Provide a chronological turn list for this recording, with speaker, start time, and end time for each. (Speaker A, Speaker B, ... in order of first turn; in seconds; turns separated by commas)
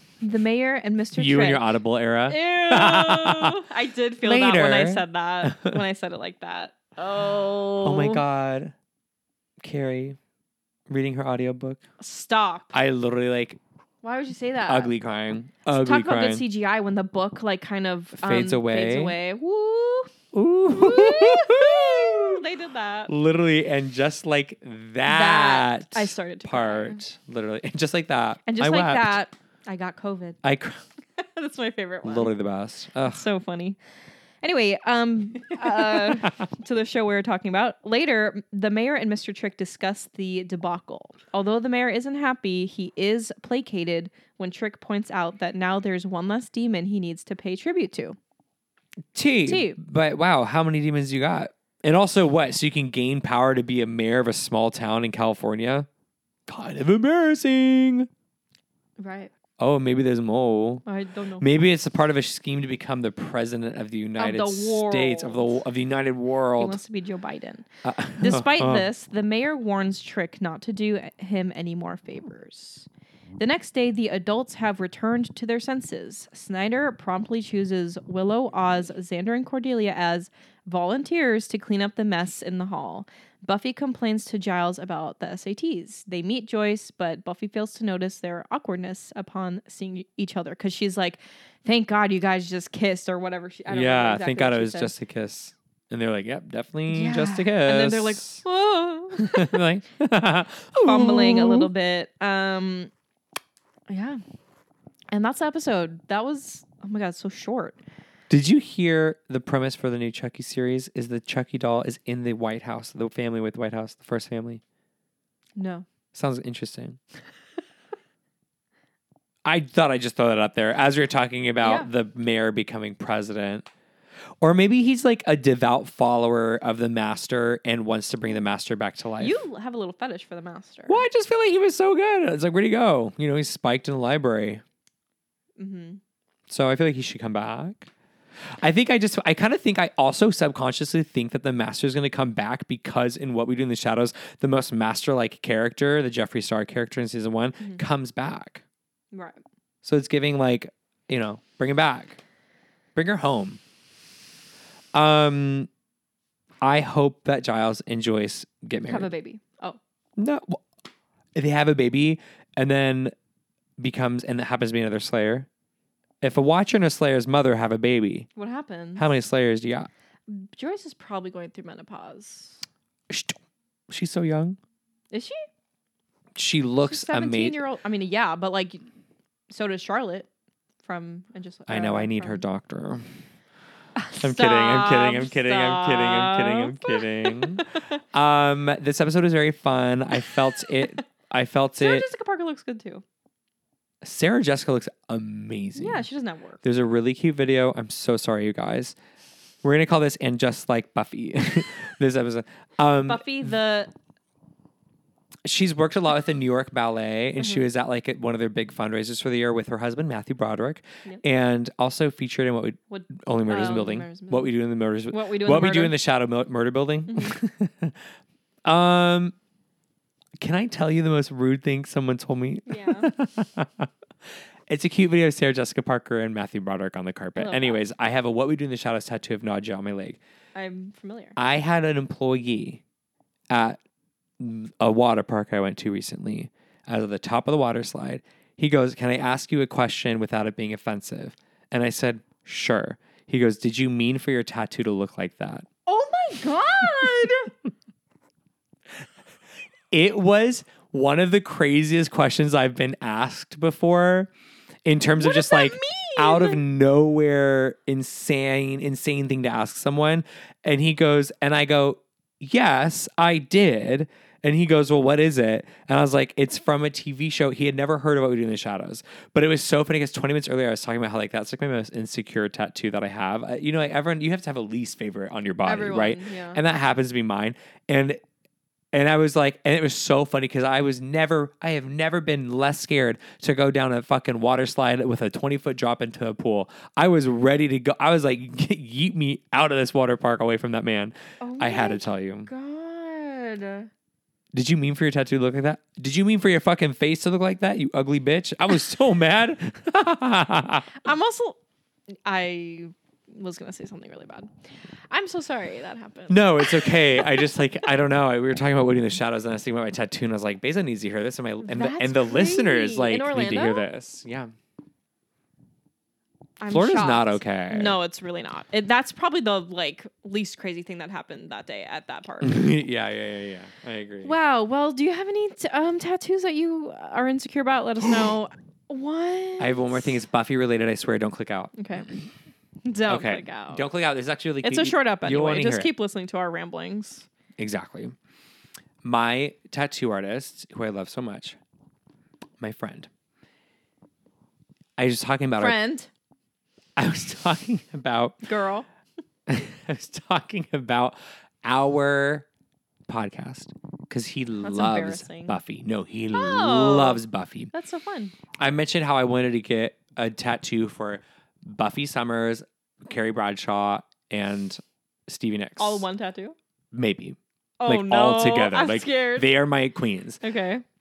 Speaker A: 0.2-1.7, Speaker B: 1.1-3.6, Speaker A: 2.3-8.2, Speaker B: 4.2-5.8, Speaker B: 7.8-8.7, Speaker B: 9.6-10.2, Speaker B: 10.9-11.8, Speaker A: 12.0-12.7, Speaker B: 12.7-13.6, Speaker A: 14.0-14.9, Speaker B: 14.7-16.4, Speaker A: 15.7-20.1, Speaker B: 18.1-19.2, Speaker B: 20.3-22.4, Speaker A: 20.7-23.1, Speaker B: 23.1-29.2, Speaker A: 25.1-27.0, Speaker A: 28.5-30.4, Speaker B: 30.4-30.8, Speaker A: 31.2-32.3, Speaker B: 32.0-33.3, Speaker A: 33.0-33.8, Speaker A: 34.4-48.2, Speaker B: 35.6-36.3, Speaker B: 49.1-55.9, Speaker A: 49.5-49.8, Speaker B: 56.5-58.1, Speaker A: 59.0-59.3, Speaker B: 59.6-60.9, Speaker A: 60.9-61.5, Speaker B: 61.4-66.8, Speaker A: 64.2-65.6, Speaker A: 66.6-94.9, Speaker B: 67.8-68.9, Speaker B: 93.7-98.4, Speaker A: 96.9-99.6, Speaker B: 99.2-101.7, Speaker A: 100.8-102.9, Speaker A: 103.9-104.2, Speaker A: 105.1-107.8, Speaker B: 108.3-114.6, Speaker A: 115.6-115.9, Speaker B: 116.1-117.0, Speaker B: 119.5-123.7, Speaker A: 121.6-121.9, Speaker B: 124.4-129.4, Speaker A: 129.2-131.0, Speaker B: 130.9-134.6, Speaker A: 135.6-136.0, Speaker B: 136.5-137.9, Speaker B: 138.6-148.6, Speaker A: 149.1-149.4, Speaker B: 149.8-152.2, Speaker B: 152.9-153.6, Speaker B: 154.9-155.7, Speaker B: 156.6-159.1, Speaker A: 158.8-159.8, Speaker B: 160.2-160.6, Speaker B: 161.3-163.1, Speaker B: 163.8-165.5, Speaker B: 166.2-168.3, Speaker A: 168.4-169.1, Speaker B: 169.0-169.9, Speaker A: 170.3-172.7, Speaker B: 173.1-173.4, Speaker B: 173.9-174.6, Speaker A: 175.1-175.4, Speaker B: 176.3-177.6, Speaker A: 176.8-178.8, Speaker A: 179.5-180.3, Speaker A: 180.8-182.4, Speaker B: 181.7-183.1, Speaker A: 184.0-188.0, Speaker B: 184.2-192.1, Speaker A: 191.8-193.0, Speaker B: 194.0-196.1, Speaker A: 195.8-196.6, Speaker B: 196.6-199.0, Speaker B: 199.6-203.5, Speaker A: 203.1-203.9, Speaker B: 205.4-218.1, Speaker A: 207.4-207.7, Speaker A: 212.9-214.5, Speaker A: 215.1-216.0, Speaker A: 217.1-217.4, Speaker B: 218.7-219.3, Speaker B: 220.4-223.9, Speaker A: 222.7-223.1, Speaker B: 224.7-230.2, Speaker A: 227.4-227.8, Speaker A: 230.6-231.4, Speaker B: 231.4-232.8, Speaker B: 233.5-233.8, Speaker B: 234.4-245.7, Speaker A: 245.9-247.5, Speaker B: 249.9-254.3, Speaker B: 254.8-278.2, Speaker A: 255.2-256.6, Speaker A: 275.6-276.6, Speaker B: 278.9-292.5, Speaker A: 291.4-293.9, Speaker B: 294.5-301.0, Speaker A: 301.0-301.6, Speaker A: 302.3-304.5, Speaker A: 305.1-307.5, Speaker B: 306.3-314.5, Speaker A: 311.6-313.9, Speaker A: 316.6-322.7, Speaker B: 316.7-318.0, Speaker B: 322.4-324.4, Speaker A: 324.2-330.2, Speaker B: 329.6-332.2, Speaker A: 331.8-332.1, Speaker A: 332.9-333.9, Speaker B: 333.1-335.9, Speaker A: 334.6-337.3, Speaker B: 337.6-338.2, Speaker B: 339.0-341.6, Speaker B: 342.6-343.1, Speaker B: 345.0-345.8, Speaker A: 345.6-346.1, Speaker B: 347.0-348.4, Speaker A: 348.4-348.9, Speaker B: 349.5-352.5, Speaker B: 353.1-357.7, Speaker A: 354.6-355.6, Speaker A: 356.3-358.3, Speaker B: 358.6-366.0, Speaker A: 365.8-366.6, Speaker B: 366.9-370.4, Speaker A: 367.8-369.5, Speaker A: 370.4-370.8